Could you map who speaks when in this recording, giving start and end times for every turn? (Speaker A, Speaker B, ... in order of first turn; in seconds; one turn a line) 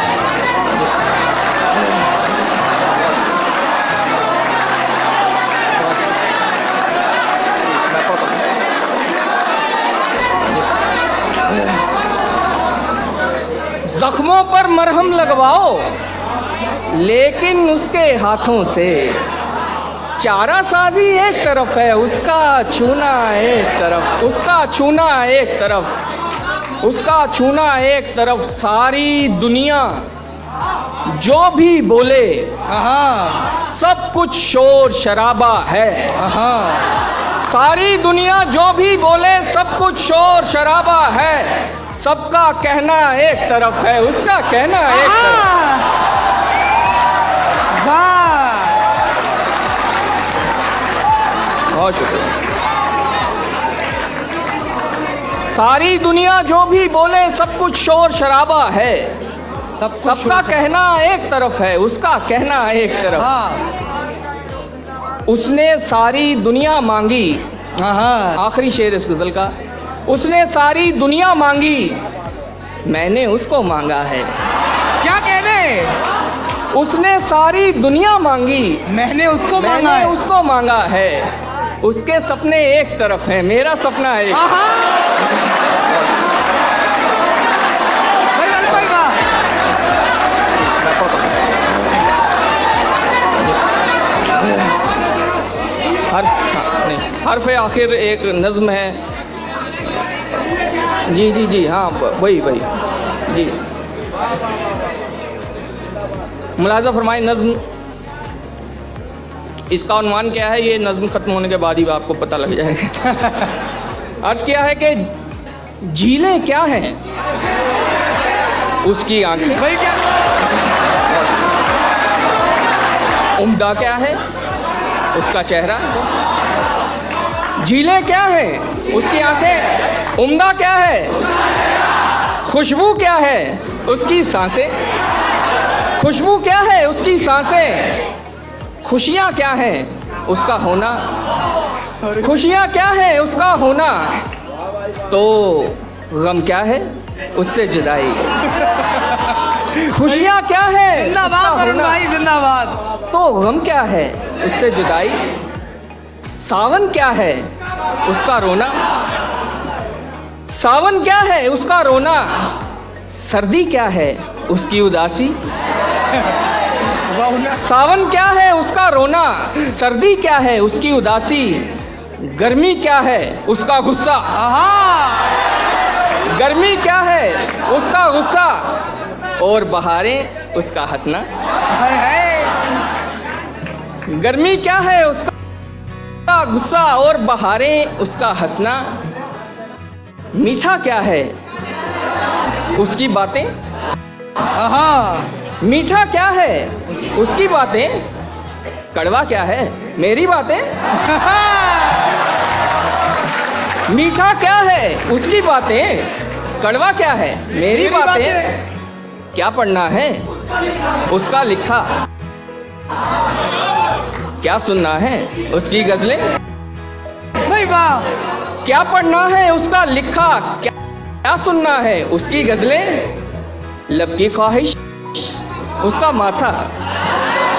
Speaker A: 7.7-8.4
Speaker A: 13.8-15.9
Speaker A: 16.9-19.2
Speaker A: 20.2-25.9
Speaker A: 26.8-30.1
Speaker A: 31.0-32.5
Speaker B: 32.7-33.4
Speaker A: 33.5-36.2
Speaker B: 36.1-36.9
Speaker A: 37.4-45.5
Speaker B: 44.9-45.9
Speaker B: 47.7-48.8
Speaker A: 51.7-52.4
Speaker A: 55.5-59.2
Speaker B: 59.8-60.6
Speaker A: 59.9-63.3
Speaker B: 63.2-63.6
Speaker A: 65.2-67.4
Speaker B: 67.8-68.4
Speaker A: 68.3-69.5
Speaker A: 70.0-72.0
Speaker A: 72.8-74.3
Speaker B: 75.0-76.0
Speaker A: 76.7-78.9
Speaker B: 78.9-80.2
Speaker A: 79.5-84.5
Speaker B: 84.3-85.0
Speaker B: 88.3-89.2
Speaker A: 96.1-99.0
Speaker A: 101.0-103.6
Speaker A: 106.6-107.6
Speaker A: 109.7-113.2
Speaker A: 114.2-115.1
Speaker A: 115.8-117.0
Speaker A: 118.8-119.7
Speaker B: 119.6-120.0
Speaker A: 123.4-124.2
Speaker A: 125.1-126.0
Speaker A: 127.6-131.2
Speaker A: 132.4-134.7
Speaker A: 136.0-138.0
Speaker A: 138.8-141.1
Speaker A: 142.1-144.2
Speaker A: 145.1-148.4
Speaker A: 149.7-152.0
Speaker B: 150.9-152.8
Speaker A: 153.1-155.2
Speaker A: 156.4-157.5
Speaker A: 158.0-158.8
Speaker A: 160.5-162.5
Speaker A: 163.1-165.4
Speaker B: 167.2-167.5
Speaker A: 167.5-174.3
Speaker B: 174.3-175.3
Speaker A: 176.3-178.8
Speaker A: 179.4-181.3
Speaker B: 181.7-182.6
Speaker A: 184.1-185.3
Speaker A: 186.2-189.0
Speaker A: 190.3-191.3
Speaker A: 192.7-193.5
Speaker B: 194.5-195.3
Speaker A: 195.6-198.1
Speaker A: 198.9-200.7
Speaker B: 201.0-202.1
Speaker A: 203.9-208.5
Speaker B: 207.7-208.5
Speaker A: 209.3-210.2
Speaker A: 211.1-211.9
Speaker A: 214.4-216.3
Speaker B: 217.4-218.1
Speaker A: 218.6-223.2
Speaker A: 223.9-226.7